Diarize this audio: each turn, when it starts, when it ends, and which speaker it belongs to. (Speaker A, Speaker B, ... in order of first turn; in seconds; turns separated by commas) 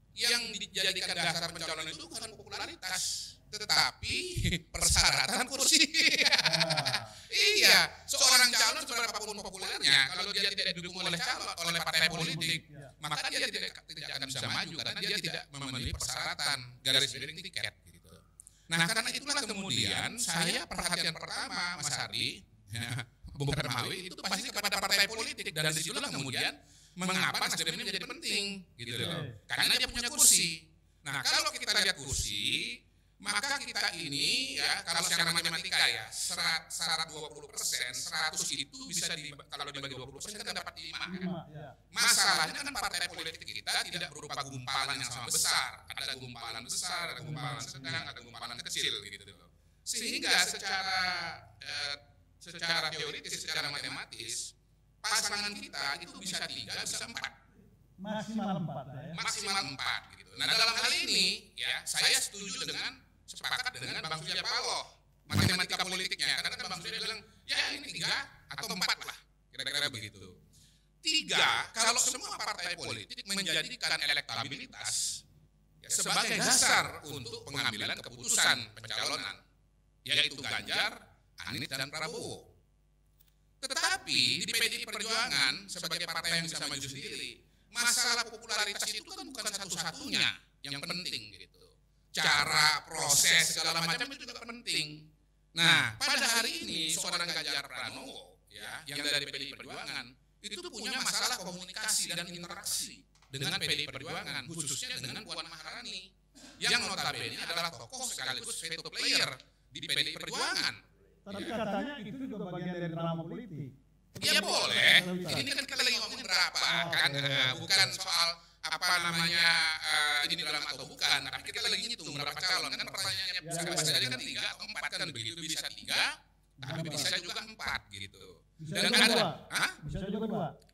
Speaker A: 0.2-41.3, Speaker B: 6.4-7.1, Speaker B: 12.2-12.9, Speaker B: 29.0-29.3, Speaker B: 41.1-41.8, Speaker A: 41.9-54.5, Speaker B: 47.3-48.0, Speaker A: 55.0-57.3, Speaker B: 58.0-59.2, Speaker A: 59.1-70.4, Speaker A: 71.0-75.2, Speaker A: 75.8-79.4, Speaker A: 80.1-82.5, Speaker A: 83.6-95.0, Speaker A: 95.5-106.1, Speaker A: 106.6-110.8, Speaker B: 111.3-115.5, Speaker A: 114.2-126.1, Speaker B: 116.7-117.7, Speaker B: 123.4-124.2, Speaker A: 126.6-129.8, Speaker B: 126.6-127.1, Speaker B: 128.6-130.5